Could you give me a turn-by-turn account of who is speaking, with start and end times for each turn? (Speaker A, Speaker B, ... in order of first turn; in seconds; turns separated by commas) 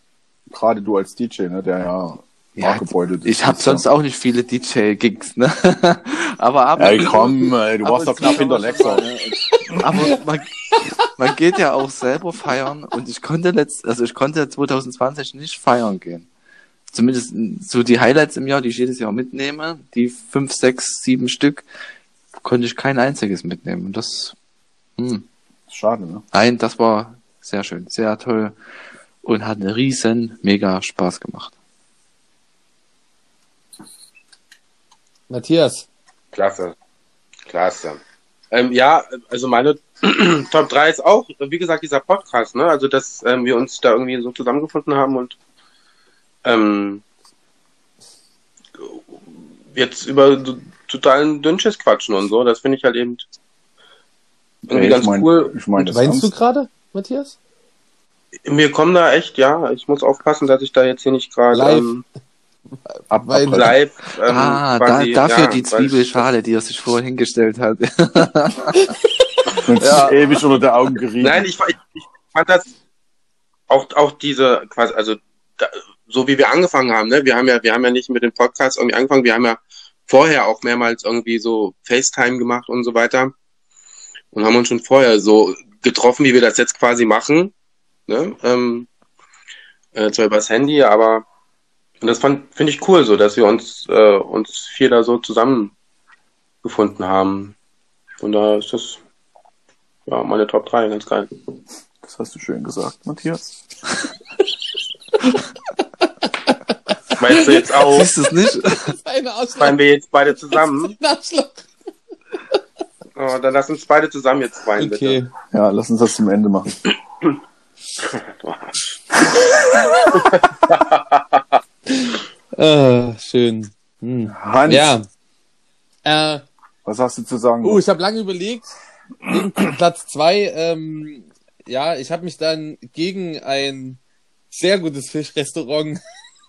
Speaker A: 0.5-3.8, Speaker B: 2.6-16.3, Speaker A: 6.8-9.1, Speaker A: 9.7-10.1, Speaker B: 16.9-21.6, Speaker B: 22.4-24.3, Speaker B: 25.0-25.2, Speaker A: 25.7-26.2, Speaker B: 26.3-28.6, Speaker B: 29.2-31.5, Speaker C: 35.3-35.9, Speaker D: 36.3-36.7, Speaker D: 37.5-38.0, Speaker D: 38.5-45.4, Speaker D: 46.4-47.0, Speaker D: 49.7-53.2, Speaker A: 54.7-56.3, Speaker D: 54.7-55.5, Speaker C: 55.8-57.4, Speaker D: 58.5-62.0, Speaker C: 61.5-61.9, Speaker A: 63.1-63.7, Speaker C: 63.1-63.7, Speaker D: 63.5-66.2, Speaker B: 64.3-68.9, Speaker A: 69.6-71.5, Speaker C: 69.8-70.1, Speaker D: 71.2-72.7, Speaker D: 73.7-83.3, Speaker D: 84.3-87.5, Speaker D: 88.1-88.9, Speaker D: 89.9-91.2, Speaker D: 92.0-95.7, Speaker D: 96.6-97.5, Speaker D: 98.2-99.0, Speaker D: 100.1-101.3, Speaker A: 102.0-103.6, Speaker C: 106.2-106.5, Speaker D: 107.2-108.1, Speaker B: 107.7-108.9, Speaker C: 108.6-109.8, Speaker D: 109.6-110.9, Speaker C: 110.5-111.6, Speaker D: 113.2-115.2, Speaker C: 114.8-115.3, Speaker A: 115.5-116.7, Speaker D: 118.0-118.8, Speaker D: 120.1-121.6, Speaker C: 121.9-125.0, Speaker A: 124.3-124.9, Speaker C: 126.0-126.4, Speaker A: 126.8-127.8, Speaker C: 127.6-128.7, Speaker C: 129.3-134.0, Speaker C: 134.5-136.0